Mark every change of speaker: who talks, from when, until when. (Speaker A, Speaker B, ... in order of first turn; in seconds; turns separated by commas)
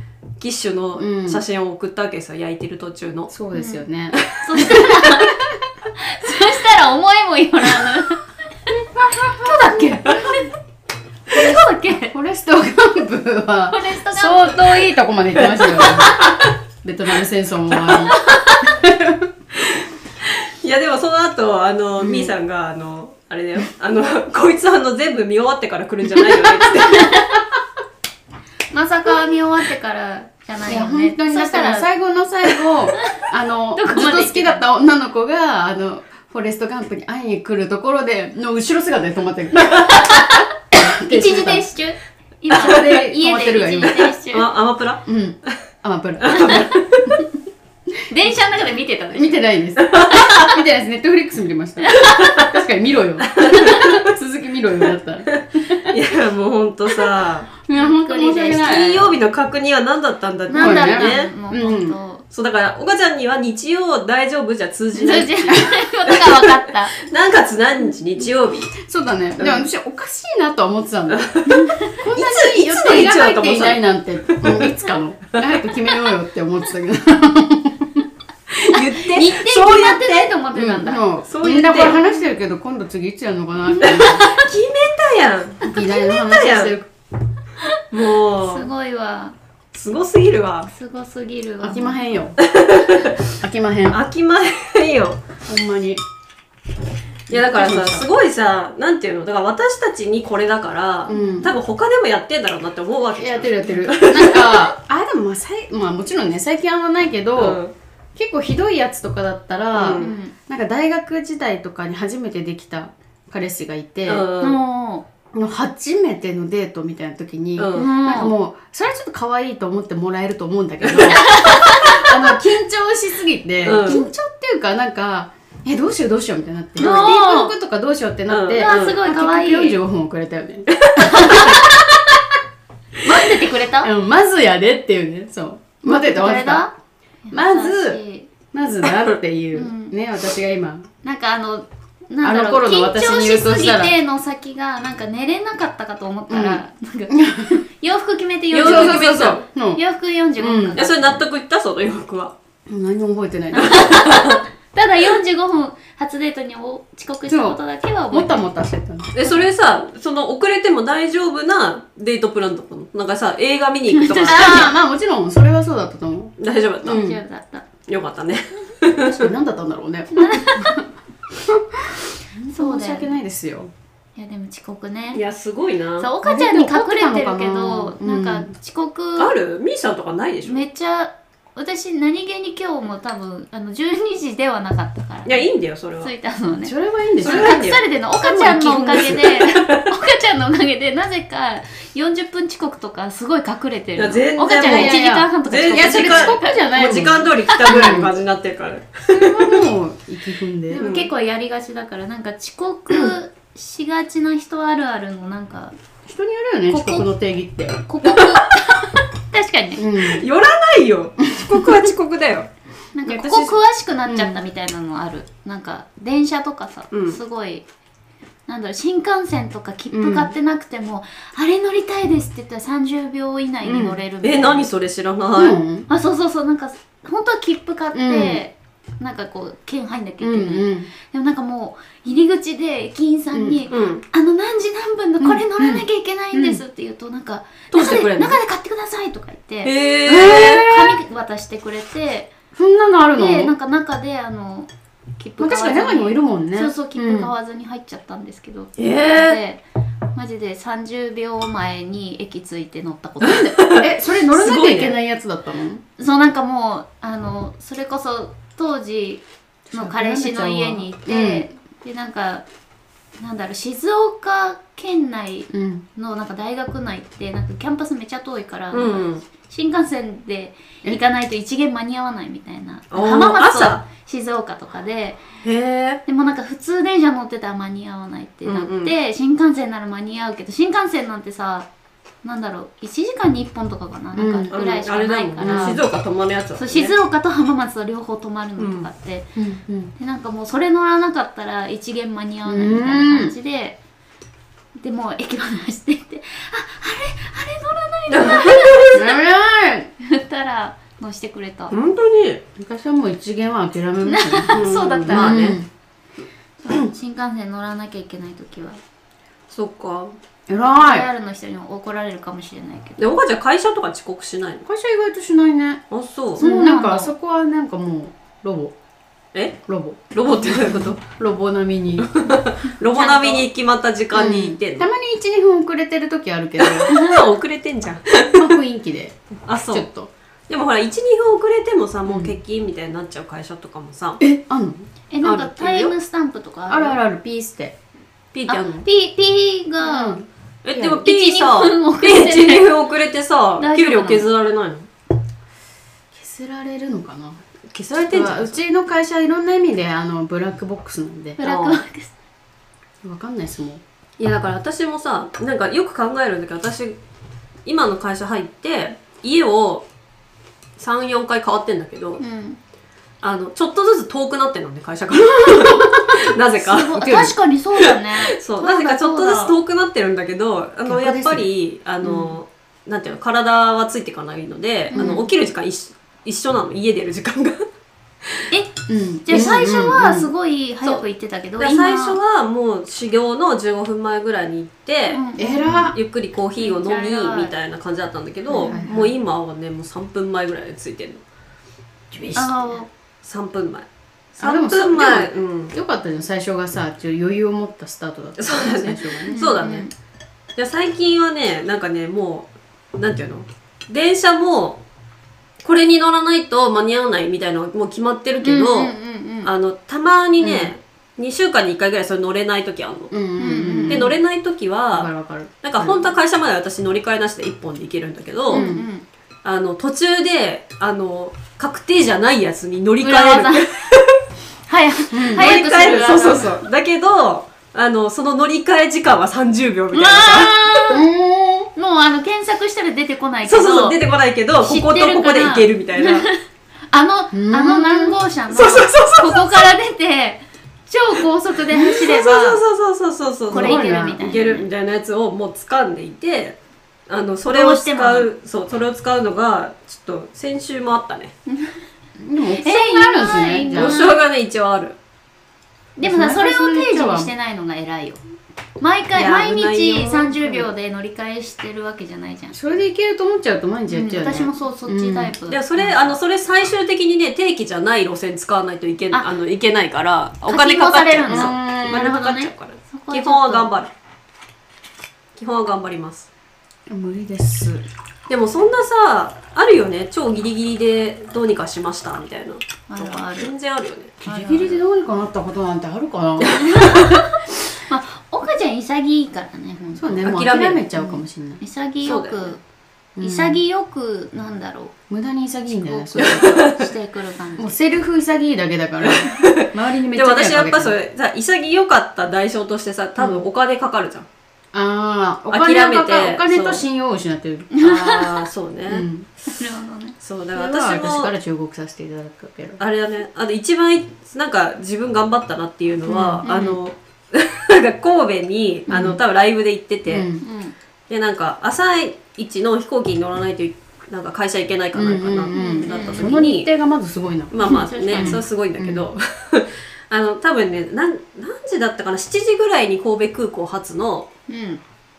Speaker A: 0.4-3.3, Speaker B: 1.0-1.4, Speaker B: 3.3-4.8, Speaker C: 3.5-5.3, Speaker A: 4.5-5.0, Speaker C: 6.0-8.3, Speaker B: 8.8-10.5, Speaker A: 9.4-10.0, Speaker C: 11.3-12.1, Speaker B: 11.3-16.2, Speaker C: 13.7-14.9, Speaker A: 15.4-16.5, Speaker B: 16.8-19.3, Speaker C: 18.1-18.7, Speaker A: 19.6-27.4, Speaker B: 22.0-22.3, Speaker C: 28.7-31.9, Speaker B: 30.7-41.7, Speaker C: 33.8-34.6, Speaker C: 39.9-44.5, Speaker B: 42.5-44.2, Speaker A: 44.3-45.5, Speaker B: 45.1-47.2, Speaker A: 46.2-46.7, Speaker C: 46.3-47.0, Speaker C: 48.1-49.4, Speaker B: 49.1-55.9, Speaker A: 49.9-50.3, Speaker C: 50.3-50.5, Speaker C: 51.8-52.4, Speaker A: 53.4-54.0, Speaker A: 55.9-57.5, Speaker B: 57.6-59.1, Speaker C: 57.7-59.1, Speaker A: 58.5-61.3, Speaker C: 60.5-62.2, Speaker B: 60.5-62.0, Speaker A: 62.3-68.8, Speaker C: 64.9-66.9, Speaker B: 68.8-71.3, Speaker A: 69.4-69.7, Speaker A: 71.1-74.9, Speaker C: 71.5-72.0, Speaker B: 72.0-78.0, Speaker A: 78.6-80.3, Speaker C: 79.0-81.0, Speaker B: 80.5-84.3, Speaker A: 81.2-82.0, Speaker A: 83.8-86.8, Speaker C: 83.9-84.4, Speaker B: 85.6-86.9, Speaker A: 87.9-88.7, Speaker C: 88.3-89.3, Speaker A: 89.7-90.7, Speaker C: 90.7-92.0, Speaker B: 91.6-92.4, Speaker A: 92.5-93.1, Speaker B: 93.4-94.0, Speaker A: 93.9-95.2, Speaker B: 95.5-96.0, Speaker B: 97.3-98.1, Speaker A: 97.3-104.7, Speaker B: 101.1-101.5, Speaker C: 101.1-101.5, Speaker B: 103.2-107.6, Speaker A: 107.3-107.7, Speaker B: 108.2-114.3, Speaker A: 109.7-110.1, Speaker C: 110.0-110.3, Speaker A: 114.1-114.6, Speaker C: 114.4-115.0, Speaker B: 115.3-131.7, Speaker A: 117.6-117.9, Speaker C: 117.8-118.3, Speaker A: 120.9-121.4, Speaker C: 121.2-122.1, Speaker A: 123.6-124.0, Speaker C: 123.9-124.1, Speaker C: 126.8-127.5, Speaker A: 126.8-127.2, Speaker A: 128.3-129.0, Speaker C: 128.6-129.8, Speaker A: 130.8-131.6, Speaker C: 131.0-131.7, Speaker C: 133.0-133.9, Speaker B: 133.8-136.7, Speaker C: 135.8-138.3, Speaker B: 137.3-138.0, Speaker B: 138.5-140.9, Speaker C: 139.5-139.9, Speaker C: 141.0-151.2, Speaker B: 142.2-143.9, Speaker B: 146.3-147.6, Speaker A: 148.5-149.4, Speaker B: 148.6-149.8, Speaker B: 150.4-150.9, Speaker A: 150.8-152.3, Speaker B: 152.7-154.0, Speaker A: 153.6-154.4, Speaker C: 153.6-158.4, Speaker B: 157.3-159.3, Speaker A: 159.1-164.7, Speaker C: 163.9-164.7, Speaker B: 164.2-166.3, Speaker A: 166.4-167.0, Speaker B: 166.8-167.2, Speaker C: 166.9-167.7, Speaker A: 167.9-169.3, Speaker B: 168.9-170.8, Speaker C: 170.2-170.8, Speaker B: 171.4-173.7, Speaker C: 172.4-173.2, Speaker C: 174.2-175.2, Speaker A: 175.1-176.1, Speaker C: 176.0-179.3, Speaker B: 176.2-178.5, Speaker A: 179.2-180.7, Speaker C: 180.4-185.5, Speaker A: 185.2-186.1, Speaker C: 186.0-198.1, Speaker B: 186.6-187.6, Speaker A: 187.2-187.8, Speaker B: 188.2-189.2, Speaker A: 188.7-189.8, Speaker A: 193.9-199.5, Speaker B: 194.6-198.1, Speaker B: 199.1-200.8, Speaker C: 200.7-205.7, Speaker A: 200.8-201.1, Speaker B: 206.1-207.8, Speaker C: 206.7-207.1, Speaker C: 207.9-209.8, Speaker A: 208.1-208.4, Speaker B: 209.8-210.2, Speaker A: 210.0-212.5, Speaker C: 212.9-217.7, Speaker A: 213.1-213.6, Speaker B: 214.1-214.4, Speaker A: 216.9-217.2, Speaker C: 218.5-224.7, Speaker B: 219.9-220.3, Speaker B: 223.6-224.0, Speaker A: 224.2-225.6, Speaker B: 225.3-225.9, Speaker C: 225.9-242.3, Speaker B: 227.9-228.4, Speaker B: 230.2-230.9, Speaker B: 233.3-233.6, Speaker A: 233.7-234.0, Speaker B: 235.2-236.6, Speaker A: 237.7-238.4, Speaker A: 239.6-240.8, Speaker B: 240.1-241.0, Speaker B: 242.6-243.6, Speaker C: 243.1-249.6, Speaker B: 245.4-247.3, Speaker A: 248.8-249.4, Speaker C: 250.1-253.5, Speaker B: 253.2-255.8, Speaker A: 253.6-255.0, Speaker C: 256.0-262.4, Speaker B: 259.7-261.5, Speaker C: 263.2-275.2, Speaker B: 265.5-265.9, Speaker A: 268.7-269.2, Speaker A: 272.9-273.8, Speaker A: 275.4-276.0, Speaker C: 276.1-281.7, Speaker A: 278.4-278.9, Speaker C: 282.2-285.8, Speaker B: 284.1-284.5, Speaker A: 284.5-286.9, Speaker B: 285.4-285.8, Speaker C: 286.6-289.3, Speaker A: 288.6-288.9, Speaker B: 289.4-289.9, Speaker C: 289.9-293.8, Speaker B: 292.4-293.4, Speaker C: 294.8-299.2, Speaker A: 298.1-299.1, Speaker B: 298.9-299.9, Speaker C: 300.0-301.7, Speaker A: 301.7-302.4, Speaker B: 302.6-305.7, Speaker C: 304.0-305.6, Speaker A: 304.5-305.6, Speaker C: 306.6-308.8, Speaker A: 309.5-310.1, Speaker B: 310.5-311.1, Speaker C: 310.8-313.0, Speaker A: 313.0-314.7, Speaker B: 314.7-315.8, Speaker A: 315.9-316.4, Speaker B: 316.4-318.7, Speaker C: 316.4-317.1, Speaker B: 319.7-322.1, Speaker A: 320.1-321.0, Speaker A: 322.0-324.9, Speaker C: 322.8-323.5, Speaker B: 324.1-326.9, Speaker A: 326.6-328.6, Speaker B: 328.3-330.1, Speaker A: 329.4-329.9, Speaker A: 330.5-334.2, Speaker B: 332.1-332.3, Speaker B: 334.2-334.9, Speaker C: 335.1-337.0, Speaker A: 335.2-335.9, Speaker B: 336.7-337.8, Speaker A: 338.3-338.9, Speaker C: 338.5-340.2, Speaker B: 339.8-340.3, Speaker A: 340.6-344.9, Speaker C: 340.7-342.7, Speaker C: 343.6-344.3, Speaker B: 346.1-347.4, Speaker A: 347.7-348.6, Speaker B: 348.1-351.4, Speaker C: 351.4-352.1, Speaker A: 351.4-351.8, Speaker B: 353.0-353.8, Speaker A: 354.2-357.0, Speaker A: 357.7-359.9, Speaker A: 360.8-362.2, Speaker C: 362.2-362.6, Speaker A: 363.2-377.6, Speaker C: 366.6-369.6, Speaker B: 370.9-371.5, Speaker B: 372.0-372.3, Speaker C: 374.9-375.2, Speaker B: 374.9-375.3, Speaker C: 378.5-382.2, Speaker B: 378.9-380.3, Speaker A: 381.6-385.3, Speaker C: 385.1-385.9, Speaker B: 385.4-386.0, Speaker A: 385.9-391.2, Speaker C: 386.6-387.6, Speaker C: 388.5-388.8, Speaker B: 388.6-389.1, Speaker A: 392.1-392.4, Speaker C: 392.3-392.9, Speaker A: 393.2-395.8, Speaker B: 394.4-399.5, Speaker A: 398.4-399.9, Speaker C: 399.3-399.9, Speaker A: 400.6-404.8, Speaker A: 405.6-413.1, Speaker C: 408.4-409.5, Speaker B: 410.4-410.7, Speaker B: 413.1-414.2, Speaker C: 413.4-414.1, Speaker A: 413.9-415.1, Speaker B: 414.9-416.1, Speaker A: 415.6-418.7, Speaker B: 418.5-418.9, Speaker C: 418.5-419.1, Speaker A: 419.4-424.2, Speaker C: 423.0-423.6, Speaker C: 424.7-426.6, Speaker B: 425.1-425.6, Speaker A: 425.3-430.6, Speaker C: 429.9-431.0, Speaker B: 430.9-431.7, Speaker C: 431.8-434.0, Speaker A: 433.4-436.3, Speaker C: 434.6-442.6, Speaker B: 437.3-438.2, Speaker A: 438.5-439.7, Speaker A: 441.7-446.6, Speaker B: 443.5-444.2, Speaker C: 443.5-444.7, Speaker A: 447.1-451.3, Speaker C: 447.4-448.3, Speaker C: 451.5-451.8, Speaker B: 452.2-454.0, Speaker C: 452.6-454.2, Speaker A: 453.7-455.0, Speaker C: 456.0-458.2, Speaker B: 456.0-457.3, Speaker C: 458.8-462.6, Speaker A: 459.1-460.7, Speaker B: 462.5-466.1, Speaker C: 463.9-465.6, Speaker A: 465.5-473.9, Speaker C: 470.5-473.7, Speaker B: 471.3-472.0, Speaker A: 475.4-476.3, Speaker B: 476.9-477.8, Speaker A: 478.3-484.1, Speaker C: 482.9-483.5, Speaker B: 484.2-486.8, Speaker C: 484.2-484.8, Speaker C: 486.6-492.6, Speaker B: 489.9-491.6, Speaker A: 490.2-490.9, Speaker A: 492.0-492.5, Speaker B: 493.2-493.6, Speaker C: 493.2-494.9, Speaker B: 495.1-496.6, Speaker A: 496.1-496.9, Speaker C: 496.2-497.8, Speaker B: 497.6-500.9, Speaker A: 499.0-504.3, Speaker B: 503.2-503.4, Speaker B: 504.7-507.7, Speaker A: 505.5-506.8, Speaker C: 507.7-508.5, Speaker A: 507.8-509.1, Speaker B: 508.9-509.3, Speaker C: 509.5-510.2, Speaker A: 510.2-511.3, Speaker B: 510.5-512.8, Speaker A: 512.8-520.3, Speaker B: 516.1-516.8, Speaker C: 516.4-516.8, Speaker B: 518.9-519.2, Speaker B: 520.1-520.4, Speaker C: 520.4-520.7, Speaker A: 521.1-526.7, Speaker B: 524.9-529.1, Speaker C: 525.5-526.3, Speaker A: 527.5-534.3, Speaker C: 527.6-528.4, Speaker C: 534.5-534.8